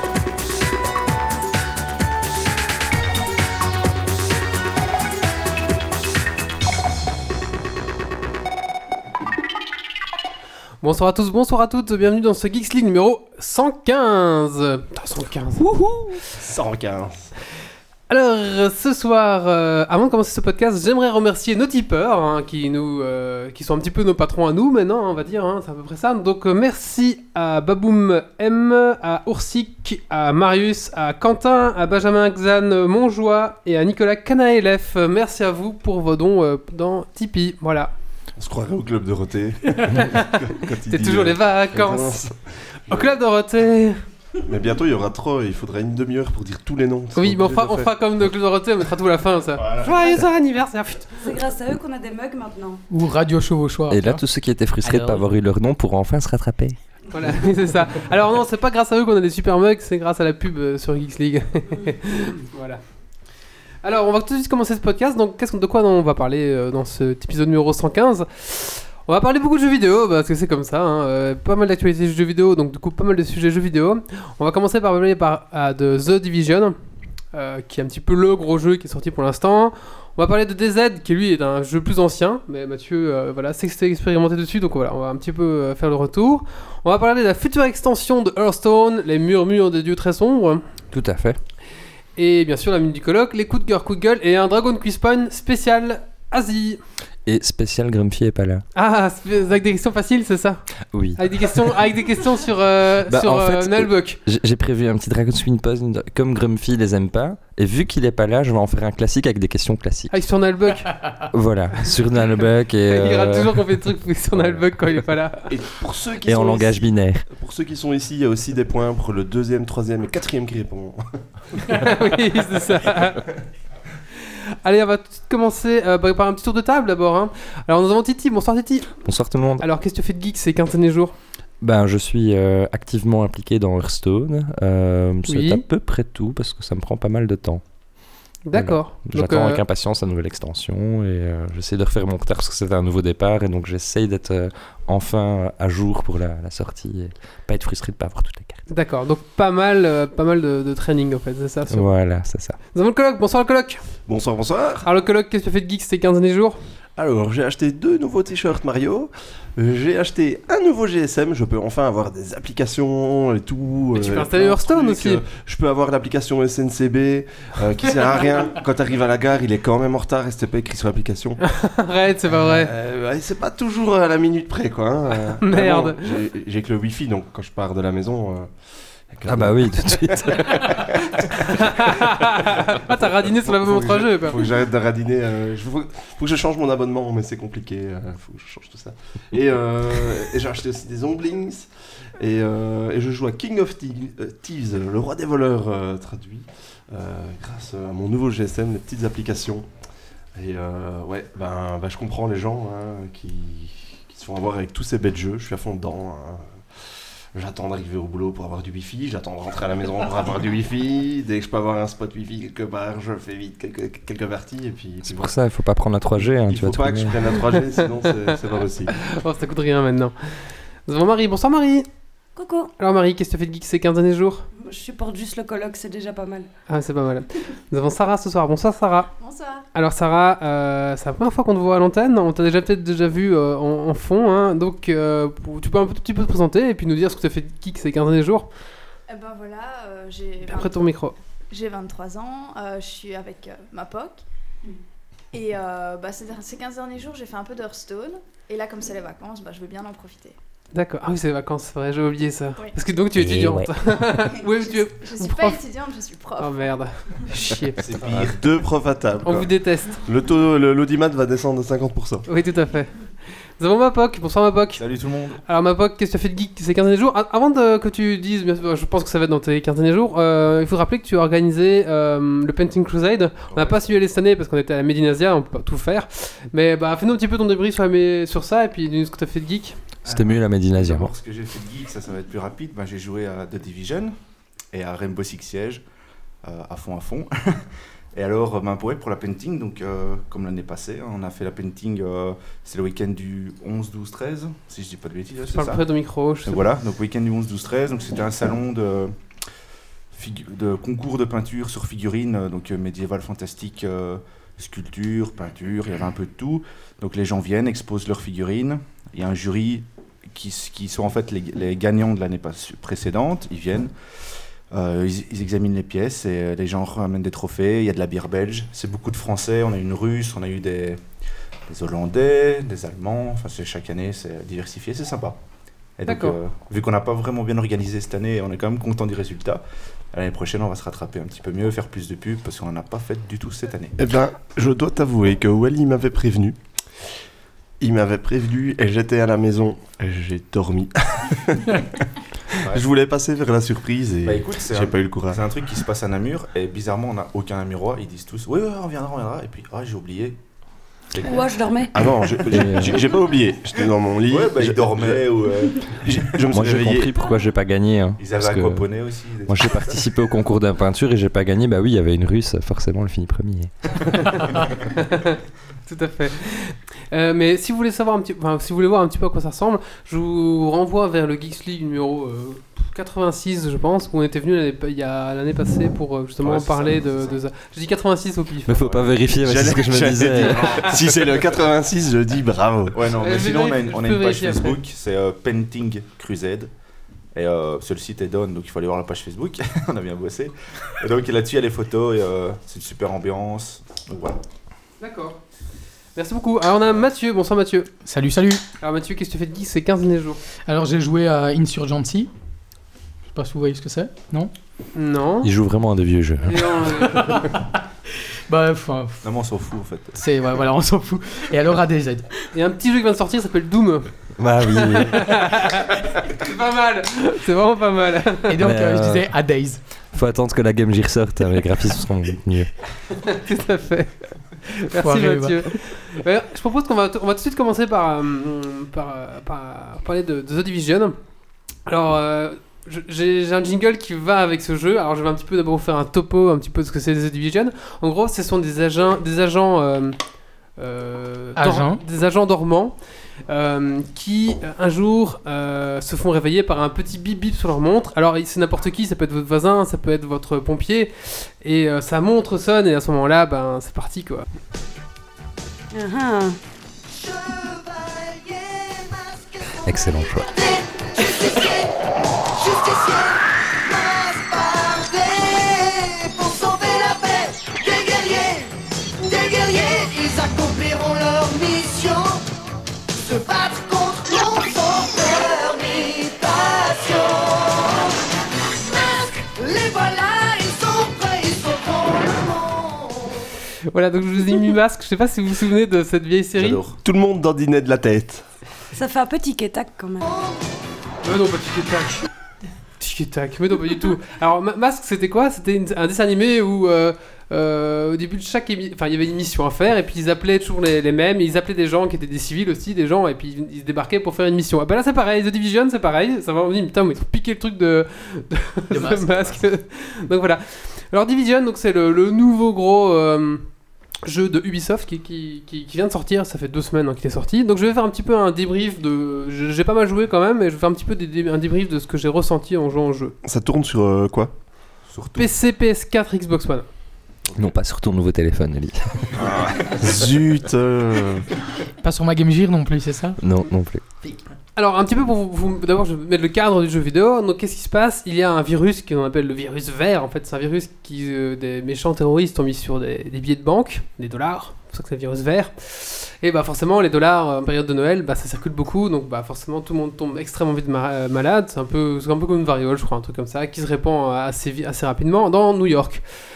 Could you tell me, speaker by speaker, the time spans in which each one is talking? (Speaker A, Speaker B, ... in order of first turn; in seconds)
Speaker A: 10.8-16.2, 18.1-37.9, 39.7-42.2, 42.9-44.0, 47.1-51.2, 57.1-62.8, 63.8-76.8, 77.3-90.6, 92.2-96.8, 98.8-104.2, 110.1-111.0, 112.9-115.5, 121.7-123.3, 124.2-129.0, 129.6-131.2, 135.3-135.6, 138.5-139.6, 148.7-151.9, 152.7-153.8, 154.8-156.6, 163.9-165.2, 171.4-172.7, 175.4-176.2, 181.4-184.4, 218.9-220.2, 220.9-221.9, 222.8-224.5, 226.7-229.1, 229.7-238.5, 240.4-241.2, 250.7-255.6, 256.4-257.9, 259.2-260.1, 262.3-262.9, 263.6-264.8, 265.5-279.8, 295.5-296.6, 326.1-326.4, 364.1-378.9, 383.2-384.8, 395.0-395.4, 396.2-397.9, 398.8-400.4, 405.0-405.5, 406.4-407.5, 412.5-414.1, 414.8-418.6, 423.2-431.2, 431.9-440.2, 440.8-442.9, 443.5-454.4, 483.9-486.8, 491.2-492.3, 493.0-513.6, 514.2-523.4, 525.4-526.9, 534.8-556.2
Speaker B: 16.3-17.3, 38.4-43.1, 44.4-47.9, 115.5-121.0, 154.1-154.9, 157.0-171.4, 172.4-178.5, 179.1-180.4, 182.9-199.7, 200.3-215.4, 216.2-218.9, 258.0-259.5, 260.0-262.2, 334.0-336.6, 337.8-341.8, 342.6-345.4, 351.9-355.3, 355.9-357.2, 379.4-383.0, 487.0-488.4, 523.4-524.5, 529.4-531.5
Speaker C: 51.2-52.8, 222.4-222.7, 224.6-226.5, 351.2-352.0, 455.9-456.6, 488.9-490.4
Speaker D: 52.9-54.2, 54.8-55.2, 398.1-398.6, 400.7-402.3, 403.3-404.5, 407.3-407.6, 408.5-409.2, 410.2-412.3, 418.5-419.8, 425.0-425.6, 441.6-442.0, 508.9-509.6, 532.0-533.4
Speaker E: 53.9-56.8, 90.9-91.4, 97.3-98.7, 100.9-101.7, 103.1-110.2, 111.3-113.8, 114.3-114.7, 116.3-117.3, 129.1-129.7, 131.6-137.6, 138.5-148.6, 151.7-152.6, 179.3-180.8, 215.0-217.4, 253.2-253.7, 280.1-281.1, 352.5-352.9, 356.5-358.9, 359.5-364.5, 378.7-380.9, 405.4-406.9, 414.4-415.4, 418.6-419.3, 420.1-422.7, 459.8-460.7, 527.6-529.3, 533.4-534.0
Speaker F: 229.2-229.7, 239.1-244.2, 245.3-250.4, 254.3-256.8
Speaker G: 257.8-258.5, 264.8-265.4, 273.5-273.8, 280.1-284.1, 284.7-285.8, 286.4-295.8, 296.4-299.2, 300.1-313.9, 314.7-321.0, 321.7-325.4, 326.0-334.0, 344.2-350.4, 354.3-356.9, 358.2-360.2, 376.4-377.0, 382.9-386.7, 387.3-394.4, 409.2-410.2, 486.6-487.0, 525.1-525.5
Speaker H: 464.5-465.5, 466.0-468.5, 469.4-472.4, 473.3-477.2, 479.6-482.2